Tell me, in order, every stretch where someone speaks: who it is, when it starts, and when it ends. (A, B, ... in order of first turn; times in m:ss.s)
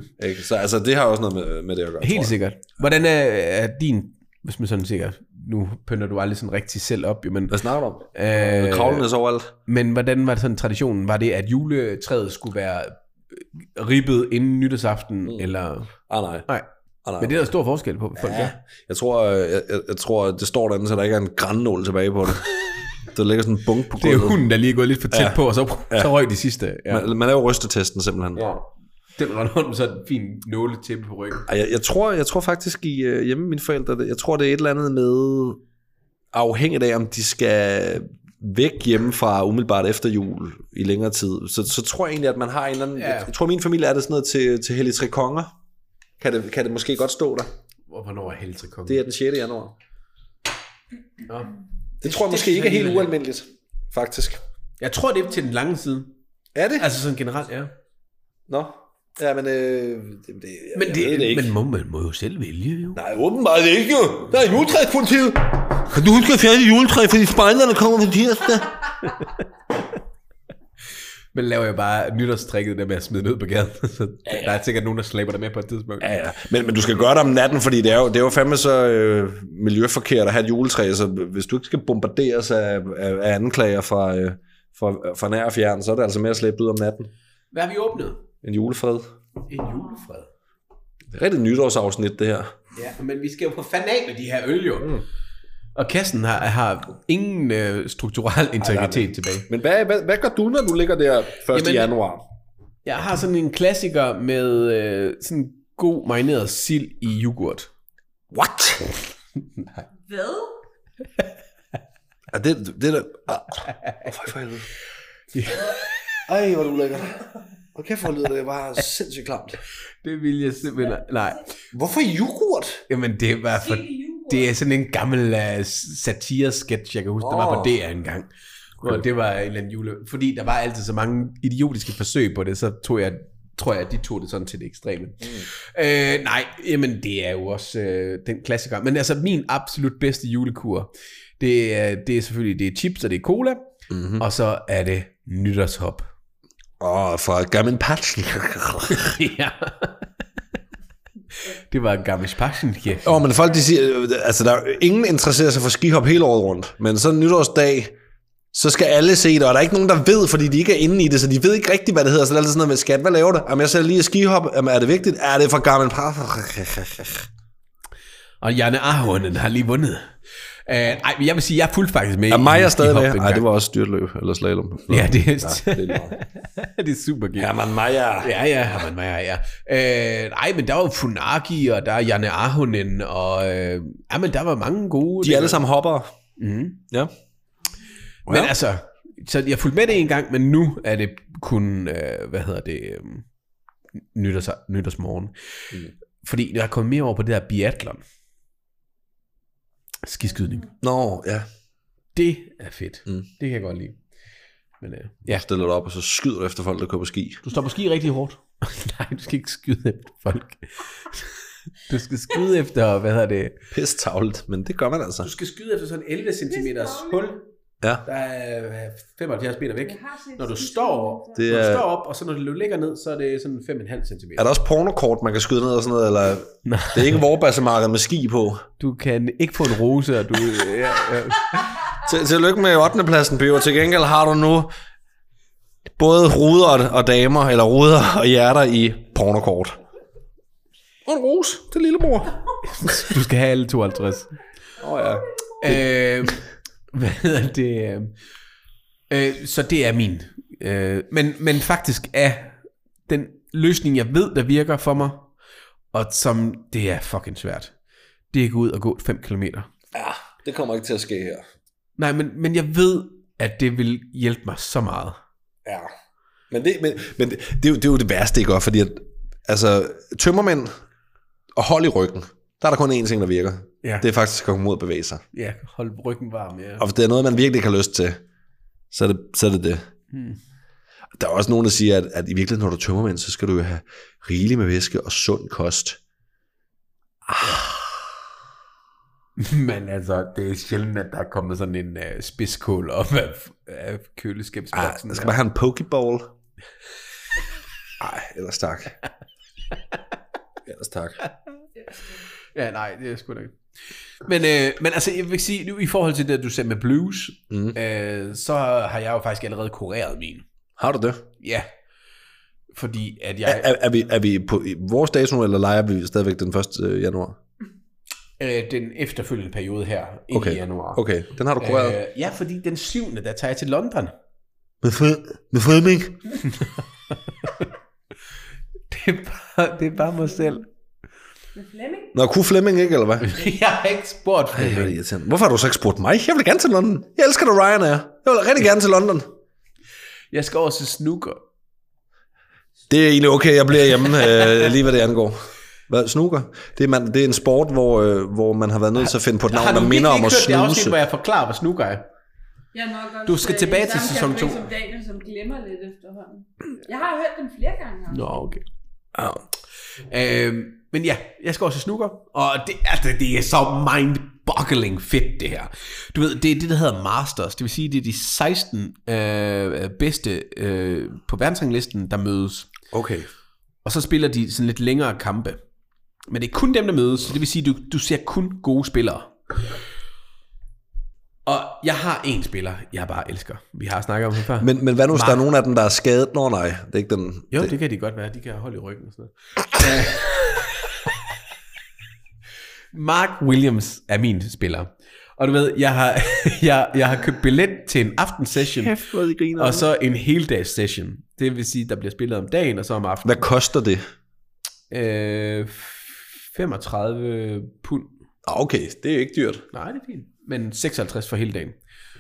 0:00.2-0:02.3 A
0:02.0-0:09.1 B
0:07.5-0:09.5 A
0:09.6-0:15.9 B
0:16.1-0:16.4 A
0:17.0-0:17.5 A
0:17.2-0:18.5 B
0:18.2-0:22.5 A
0:23.0-0:24.4 A
0:24.0-0:27.1 B
0:25.1-0:25.4 A
0:26.9-0:28.4 A
0:28.3-0:31.5 B
0:31.5-0:35.6 A
0:36.3-0:45.5 A
0:42.9-0:43.3 B
0:46.2-0:47.5 A
0:47.9-0:49.0 B
0:48.9-0:49.7 A
0:51.3-0:53.1 B
0:52.0-0:54.4 A
0:54.8-0:56.2 B
0:56.5-0:56.9 A
0:56.8-0:57.7 B
0:58.5-1:01.5 A
1:00.7-1:03.0 B
1:02.9-1:09.1 A
1:11.3-1:16.1 B
1:14.2-1:14.6 A
1:16.0-1:27.1 A
1:27.5-1:28.2 B
1:28.4-1:29.1 A
1:29.5-1:30.3 B
1:29.6-1:30.0 C
1:31.1-1:32.5 A
1:32.7-1:35.0 B
1:35.7-1:39.5 B
1:38.6-1:42.2 A
1:41.5-1:41.9 B
1:42.8-1:47.7 B
1:48.3-1:48.9 A
1:50.0-1:50.6 C
1:52.3-1:54.7 A
1:53.7-1:54.0 B
1:55.3-1:56.2 B
1:56.3-1:59.6 A
2:00.0-2:01.5 B
2:01.7-2:02.8 A
2:02.9-2:23.7 B
2:03.5-2:04.5 C
2:07.2-2:07.7 A
2:23.9-2:24.2 A
2:24.2-2:26.1 B
2:26.8-2:29.2 A
2:28.9-2:30.1 B
2:31.4-2:33.2 B
2:33.0-2:37.9 A
2:38.5-2:47.3 A
2:48.4-2:53.4 B
2:52.3-2:56.2 A
2:54.9-2:57.5 B
2:57.4-2:58.3 A
2:58.2-3:05.6 B
3:05.2-3:06.1 A
3:06.4-3:06.8 B
3:08.3-3:08.5 A
3:08.3-3:13.3 B
3:14.1-3:18.0 B
3:20.0-3:20.7 B
3:20.8-3:21.5 A
3:22.1-3:24.0 B
3:24.8-3:25.4 B
3:25.3-3:27.4 A
3:27.4-3:33.6 B
3:33.7-3:35.3 A
3:35.2-3:37.4 B
3:36.5-3:37.3 C
3:38.0-3:44.5 B
3:39.8-3:41.4 C
3:41.4-3:41.8 A
3:44.4-3:48.6 A
3:46.6-3:47.2 B
3:48.8-3:51.7 B
3:52.0-3:54.7 A
3:56.0-3:59.8 A
4:01.0-4:02.3 A
4:02.6-4:04.4 B
4:04.8-4:05.8 A
4:05.6-4:08.2 B
4:09.1-4:15.3 B
4:15.9-4:17.7 B
4:18.3-4:19.7 B
4:19.9-4:21.4 A
4:22.0-4:25.2 B
4:25.6-4:25.9 A
4:26.5-4:30.7 A
4:31.6-4:35.2 A
4:35.3-4:36.9 B
4:36.8-4:38.2 A
4:38.9-4:39.8 A
4:40.1-4:40.4 B
4:41.2-4:46.0 A
4:47.2-4:48.0 A
4:47.4-4:47.7 B
4:49.4-4:55.4 B
4:54.7-4:56.3 A
4:58.0-4:59.0 A
5:00.6-5:01.2 A
5:02.0-5:03.6 B
5:04.2-5:10.4 B
5:07.5-5:07.8 A
5:10.8-5:11.2 A
5:11.4-5:11.7 B
5:12.7-5:13.7 B
5:13.4-5:17.4 A
5:18.4-5:21.0 B
5:20.3-5:22.0 A
5:21.6-5:24.1 B
5:24.8-5:26.3 A
5:26.4-5:27.7 B
5:28.9-5:30.6 B
5:30.2-5:30.5 C
5:31.5-5:32.1 C
5:32.1-5:33.3 A
5:33.2-5:35.0 B
5:34.5-5:39.3 A
5:40.3-5:41.4 B
5:42.9-5:45.4 A
5:45.9-5:51.0 A
5:49.5-5:52.0 B
5:52.7-5:58.5 C
5:53.2-5:54.6 B
5:58.1-5:58.6 B
5:59.1-5:59.4 A
6:00.1-6:12.7 B
6:12.9-6:13.3 A
6:13.8-6:15.6 B
6:16.3-6:19.4 B
6:21.4-6:25.4 B
6:24.6-6:27.7 A
6:27.5-6:31.0 B
6:32.9-6:39.0 B
6:38.7-6:39.9 A
6:39.6-6:43.4 B
6:43.2-6:44.0 A
6:44.9-6:48.2 B
6:48.4-6:49.6 A
6:49.7-6:51.8 B